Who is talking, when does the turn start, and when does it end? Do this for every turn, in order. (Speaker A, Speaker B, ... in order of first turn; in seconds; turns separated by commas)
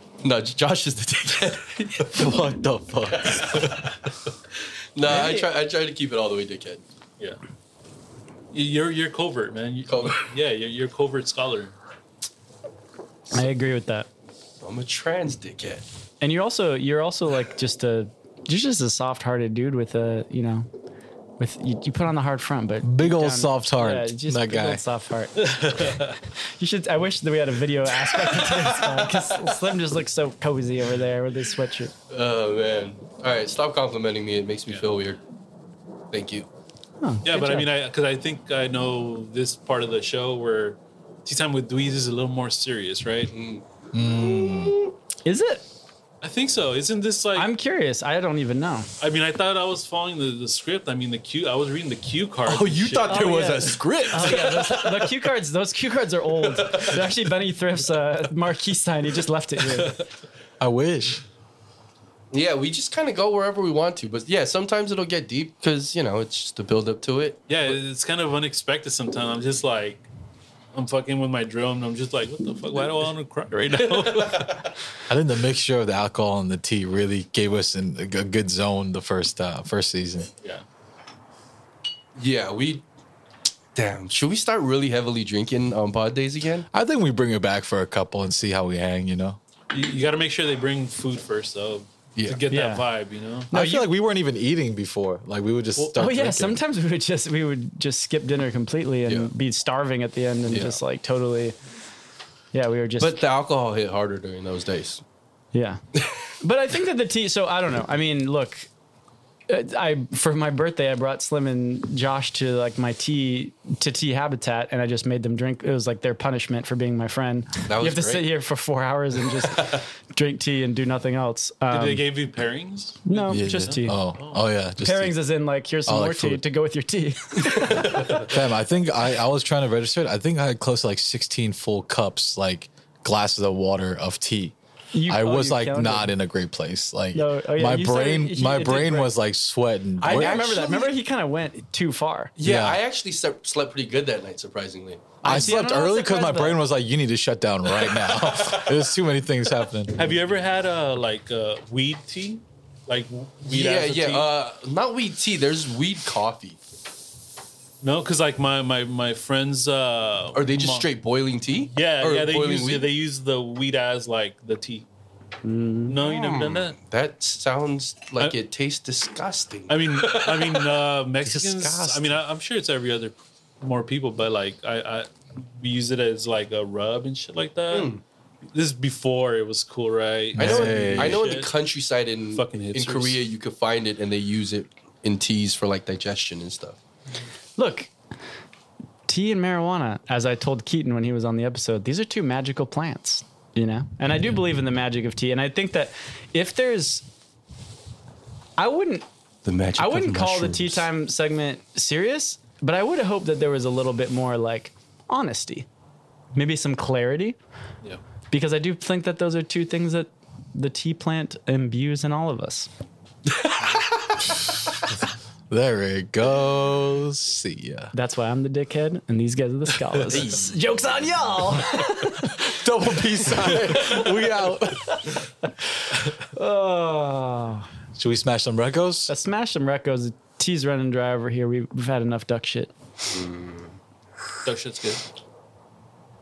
Speaker A: 0.2-2.4, Speaker B: 2.1-3.9, Speaker A: 3.1-4.0, Speaker A: 5.0-6.8, Speaker C: 5.1-5.5, Speaker D: 8.5-11.8, Speaker A: 9.9-10.2, Speaker C: 13.3-14.1, Speaker A: 14.6-15.8, Speaker C: 16.2-20.7, Speaker C: 21.4-26.0, Speaker B: 22.8-24.8, Speaker D: 25.4-26.2, Speaker C: 26.6-31.9, Speaker D: 28.4-28.7, Speaker A: 32.1-35.2, Speaker D: 34.7-35.0, Speaker A: 36.1-36.5, Speaker C: 37.0-37.7, Speaker D: 37.2-43.3, Speaker A: 43.3-43.6, Speaker B: 43.9-44.8, Speaker A: 44.4-44.7, Speaker C: 45.2-45.6, Speaker D: 46.2-47.5, Speaker C: 47.4-48.9, Speaker D: 49.0-53.3, Speaker A: 52.5-55.2, Speaker C: 53.1-60.0, Speaker D: 54.2-54.5, Speaker A: 56.4-57.1, Speaker B: 60.6-61.2, Speaker A: 62.3-67.4, Speaker D: 67.5-70.1, Speaker D: 70.7-74.7, Speaker A: 73.8-74.6, Speaker B: 75.1-80.3, Speaker A: 82.2-82.8, Speaker A: 83.8-86.7, Speaker B: 86.7-89.4, Speaker D: 89.7-93.5, Speaker A: 92.2-92.4, Speaker C: 92.5-92.8, Speaker B: 93.5-96.6, Speaker C: 93.5-93.9, Speaker C: 96.0-101.6, Speaker A: 99.1-99.3, Speaker A: 100.5-100.8, Speaker C: 102.5-103.2, Speaker A: 103.0-105.0, Speaker C: 105.5-105.8, Speaker C: 106.4-108.7, Speaker C: 109.5-122.0, Speaker A: 117.7-118.3, Speaker A: 119.5-119.8, Speaker D: 121.7-124.5, Speaker C: 123.1-124.0, Speaker B: 123.3-125.2, Speaker C: 124.8-128.2, Speaker B: 125.9-126.4, Speaker B: 128.3-134.6, Speaker C: 134.9-136.1, Speaker B: 135.1-140.4, Speaker C: 137.1-139.1, Speaker A: 140.0-140.9, Speaker C: 140.0-142.3, Speaker A: 142.4-145.4, Speaker B: 142.4-142.8, Speaker C: 145.2-146.6, Speaker B: 145.2-149.9, Speaker A: 147.8-148.8, Speaker D: 149.9-154.3, Speaker A: 153.5-156.6, Speaker D: 157.8-160.9, Speaker A: 160.3-162.9, Speaker D: 161.7-164.9, Speaker C: 165.4-165.9, Speaker D: 165.9-166.8, Speaker A: 166.0-170.7, Speaker D: 169.7-177.9, Speaker B: 171.2-172.1, Speaker A: 177.7-178.0, Speaker D: 178.5-181.5, Speaker B: 180.3-181.2, Speaker A: 180.4-186.8, Speaker D: 182.3-183.2, Speaker C: 187.6-187.9, Speaker C: 189.1-197.1, Speaker C: 198.6-199.1, Speaker A: 199.4-200.9, Speaker C: 199.8-205.7, Speaker C: 206.3-207.4, Speaker C: 208.3-212.7, Speaker B: 215.5-217.9, Speaker C: 217.9-222.4, Speaker A: 220.1-220.6, Speaker B: 222.4-225.1, Speaker C: 223.4-224.0, Speaker C: 226.3-227.7, Speaker B: 228.0-229.1, Speaker C: 229.1-232.7, Speaker A: 233.1-233.8, Speaker D: 234.4-235.1